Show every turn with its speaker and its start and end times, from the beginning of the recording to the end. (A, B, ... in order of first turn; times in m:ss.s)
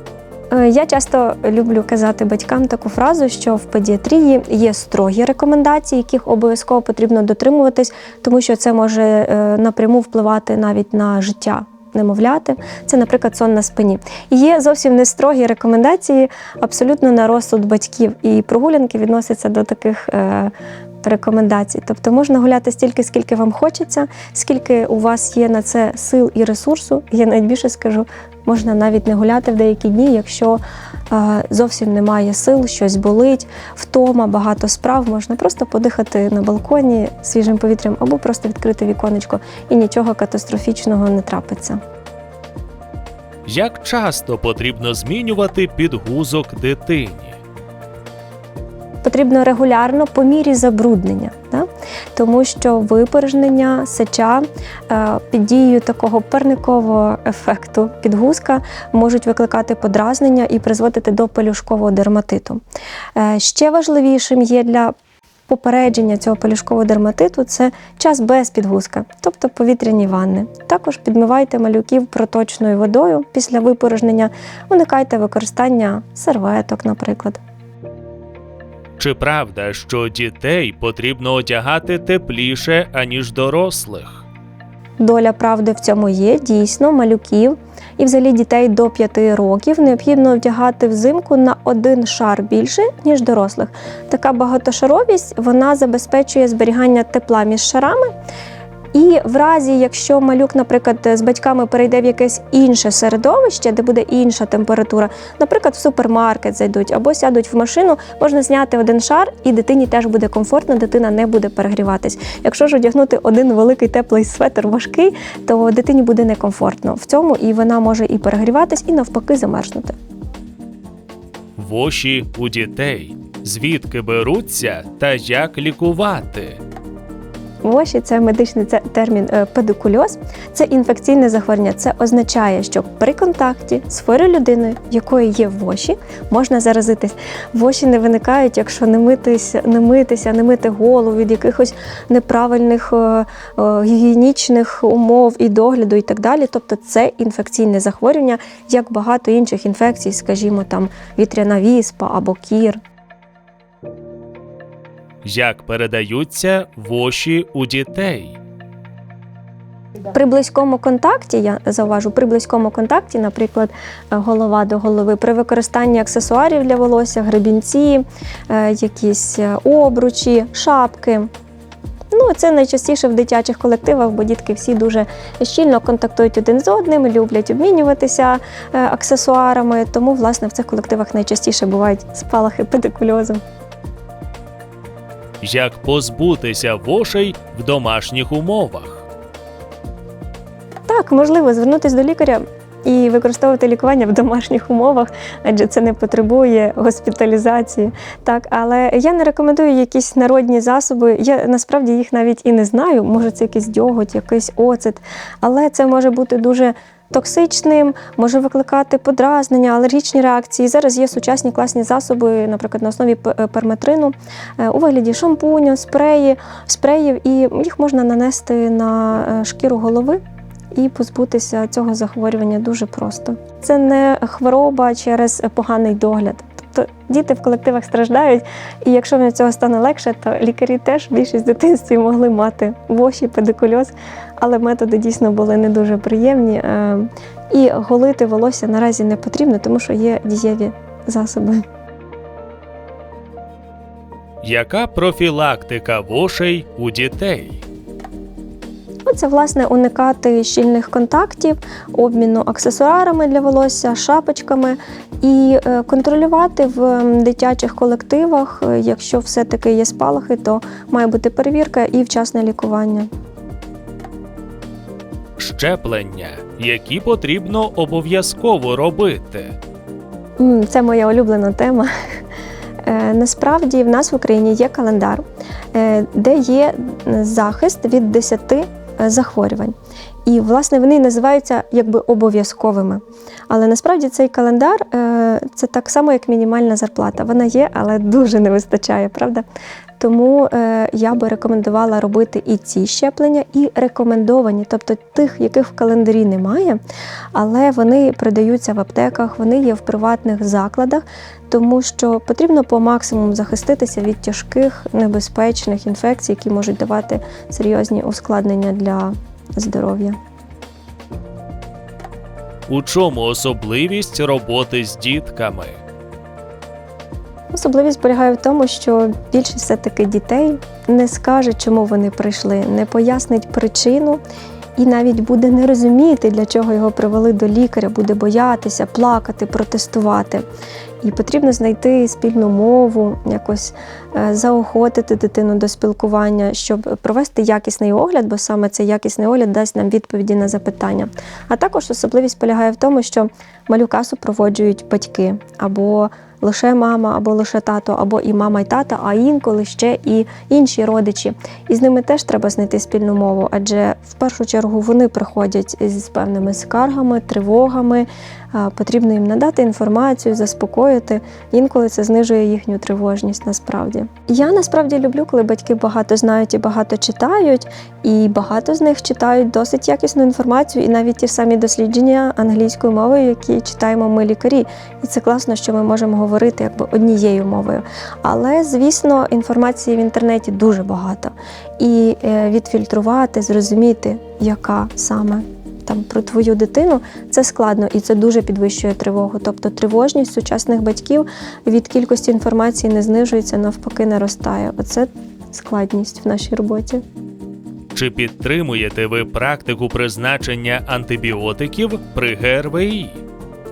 0:00.5-0:41.8 A
0:43.5-0:47.4 B
0:49.0-1:02.6 A
1:03.2-1:04.9 A
1:05.5-1:17.4 A
1:19.0-1:24.3 B
1:25.0-1:38.1 A
1:38.9-2:00.0 A
2:01.6-2:06.6 B
2:07.6-2:32.8 A
2:35.2-2:38.4 B
2:40.1-2:51.3 A
2:52.1-3:03.4 A
3:05.4-3:09.1 B
3:10.9-3:40.2 A
3:40.7-4:01.6 A
4:04.4-4:07.6 B
4:09.1-4:23.1 A
4:25.4-4:29.6 B
4:30.4-4:31.9 A
4:32.8-4:49.4 A
4:50.0-4:56.8 A
4:57.3-5:10.2 A
5:12.7-5:15.8 B
5:17.5-5:24.2 A
5:24.8-5:30.5 A
5:31.0-6:37.0 A
6:37.9-6:43.2 B